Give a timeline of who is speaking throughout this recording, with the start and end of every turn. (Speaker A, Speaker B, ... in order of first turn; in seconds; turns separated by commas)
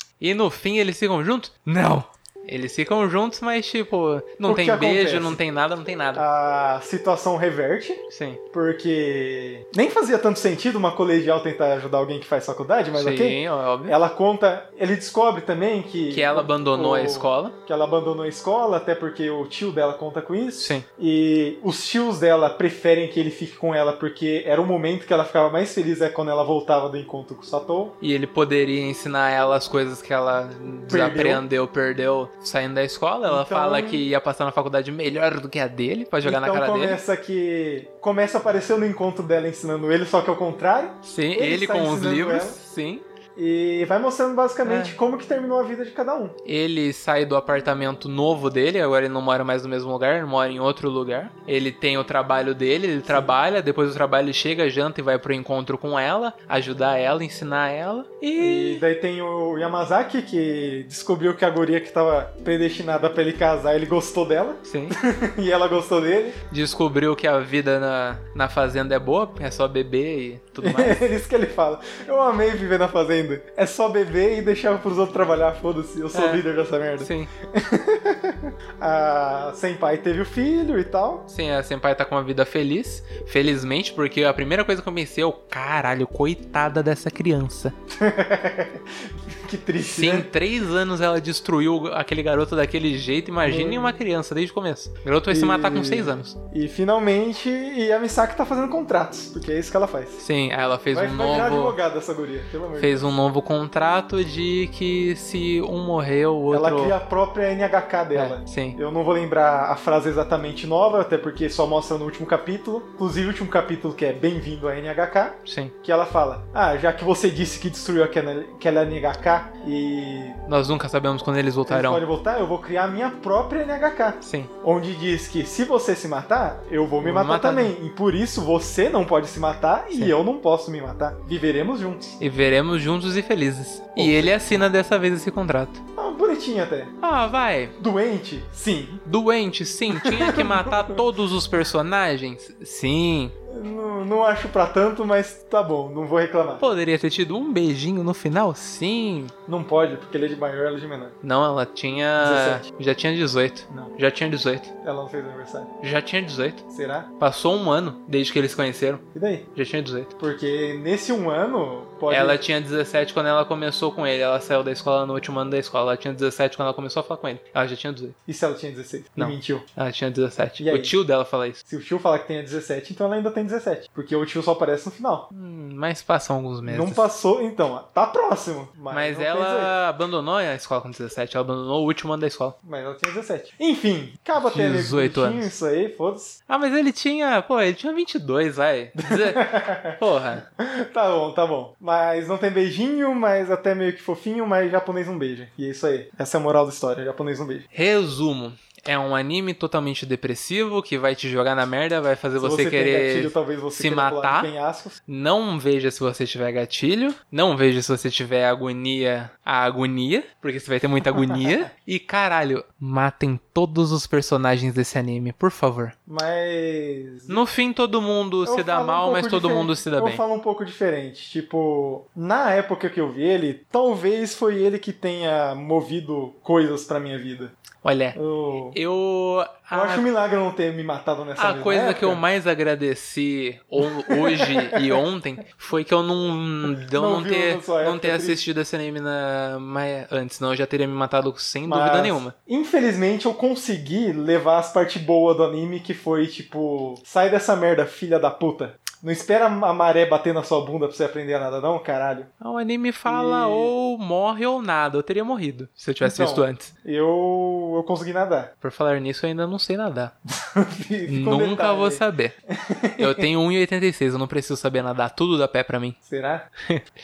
Speaker A: 0.2-6.2, Speaker B: 4.4-5.4, Speaker B: 6.1-27.9, Speaker A: 8.1-8.4, Speaker A: 12.9-13.9, Speaker A: 16.1-17.5, Speaker A: 20.6-20.8, Speaker A: 28.0-37.0, Speaker B: 30.9-31.4, Speaker B: 33.2-34.0, Speaker B: 36.2-42.6, Speaker A: 41.0-43.0, Speaker B: 43.4-46.4, Speaker A: 44.6-45.0, Speaker A: 46.4-58.8, Speaker B: 53.1-53.4, Speaker B: 58.4-66.4, Speaker A: 64.7-65.0, Speaker A: 66.5-71.0, Speaker B: 70.6-81.3, Speaker A: 76.1-76.4, Speaker A: 77.0-77.3, Speaker A: 81.3-87.7, Speaker B: 87.9-90.3, Speaker A: 89.8-96.3, Speaker B: 93.4-93.9, Speaker B: 95.3-100.2, Speaker A: 100.2-101.8, Speaker B: 100.9-103.2, Speaker A: 102.8-107.0, Speaker B: 106.5-120.4, Speaker A: 108.1-108.8, Speaker A: 115.4-115.7, Speaker A: 120.5-122.0, Speaker B: 121.7-132.1, Speaker A: 124.2-124.5, Speaker A: 127.0-127.7, Speaker A: 132.2-135.8, Speaker B: 133.9-134.4, Speaker B: 135.9-136.9, Speaker A: 137.0-137.7, Speaker B: 137.8-139.0, Speaker A: 139.0-143.3, Speaker B: 139.9-141.0, Speaker B: 143.5-146.6, Speaker A: 146.6-149.3, Speaker B: 149.5-151.1, Speaker A: 151.2-154.7, Speaker B: 152.2-152.6, Speaker B: 153.7-153.9, Speaker B: 154.8-155.7, Speaker A: 155.8-156.6, Speaker B: 156.7-157.1, Speaker A: 157.2-160.1, Speaker B: 159.1-159.5, Speaker B: 160.2-162.4, Speaker A: 162.1-168.1, Speaker B: 168.3-169.7, Speaker A: 169.2-171.6, Speaker B: 170.6-170.9, Speaker B: 171.6-175.3, Speaker A: 175.3-177.1, Speaker B: 176.6-179.7, Speaker A: 178.9-182.5, Speaker B: 182.6-186.4, Speaker A: 184.3-185.5, Speaker A: 186.5-190.4, Speaker B: 189.0-190.0, Speaker B: 190.6-197.7, Speaker A: 197.7-204.5, Speaker B: 202.4-205.0, Speaker A: 205.1-215.9, Speaker B: 216.1-217.4, Speaker A: 217.3-220.2, Speaker B: 218.4-227.5, Speaker A: 227.8-228.2, Speaker B: 228.1-228.8, Speaker A: 228.7-230.1, Speaker B: 229.7-232.2, Speaker A: 231.4-242.3, Speaker B: 233.8-235.0, Speaker B: 236.8-238.4, Speaker B: 241.7-252.3, Speaker A: 252.4-256.7, Speaker B: 253.1-253.7, Speaker B: 256.0-258.5, Speaker A: 258.6-260.1, Speaker B: 260.4-263.3, Speaker A: 261.1-262.4, Speaker A: 263.0-266.0, Speaker B: 266.0-266.5